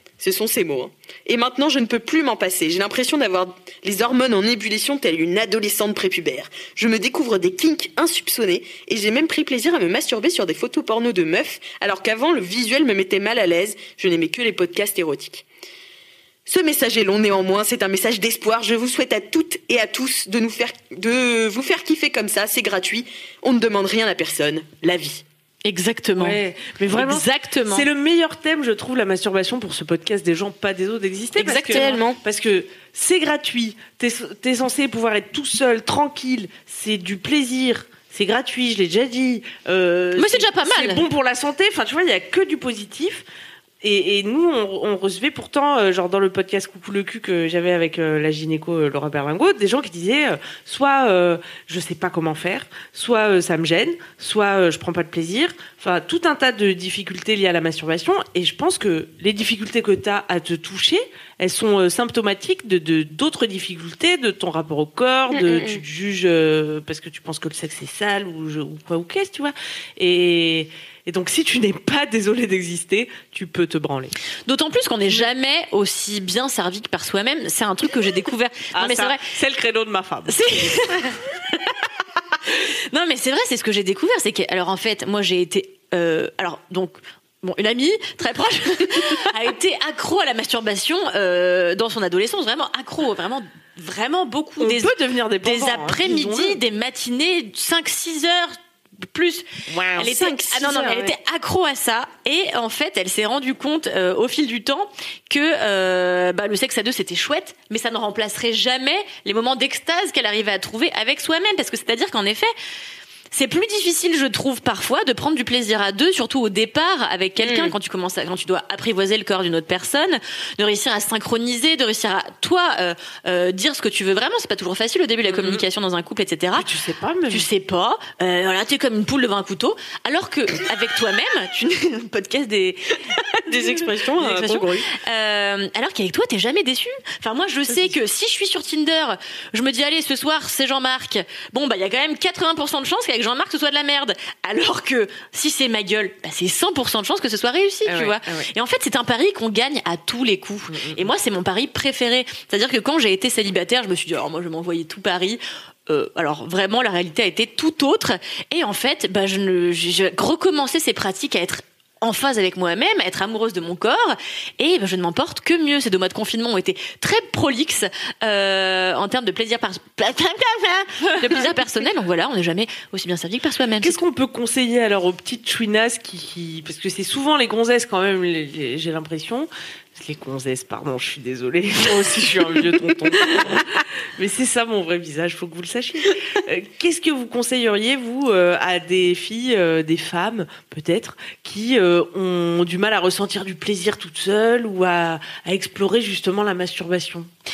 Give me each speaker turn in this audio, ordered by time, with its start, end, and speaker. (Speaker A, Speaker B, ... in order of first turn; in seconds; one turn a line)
Speaker A: 0.2-15.4
Speaker A: 16.5-25.2
Speaker B: 25.6-26.4
Speaker C: 26.2-43.2
Speaker B: 26.9-27.9
Speaker B: 31.4-32.0
Speaker A: 31.5-32.2
Speaker B: 40.1-41.0
Speaker C: 43.8-74.1
Speaker A: 65.3-65.8
Speaker B: 74.5-79.2
Speaker C: 78.7-80.4
Speaker B: 80.3-81.2
Speaker B: 82.9-94.9
Speaker C: 94.6-96.6
Speaker B: 95.4-112.5
Speaker C: 99.7-100.1
Speaker A: 100.0-101.1
Speaker B: 113.3-126.7
Speaker A: 117.4-117.7
Speaker C: 125.2-125.6
Speaker C: 126.5-127.5
Speaker B: 127.3-133.2
Speaker A: 133.4-134.9
Speaker B: 134.2-174.0
Speaker C: 137.7-137.9
Speaker C: 147.8-148.5
Speaker C: 150.7-151.0
Speaker C: 173.8-197.3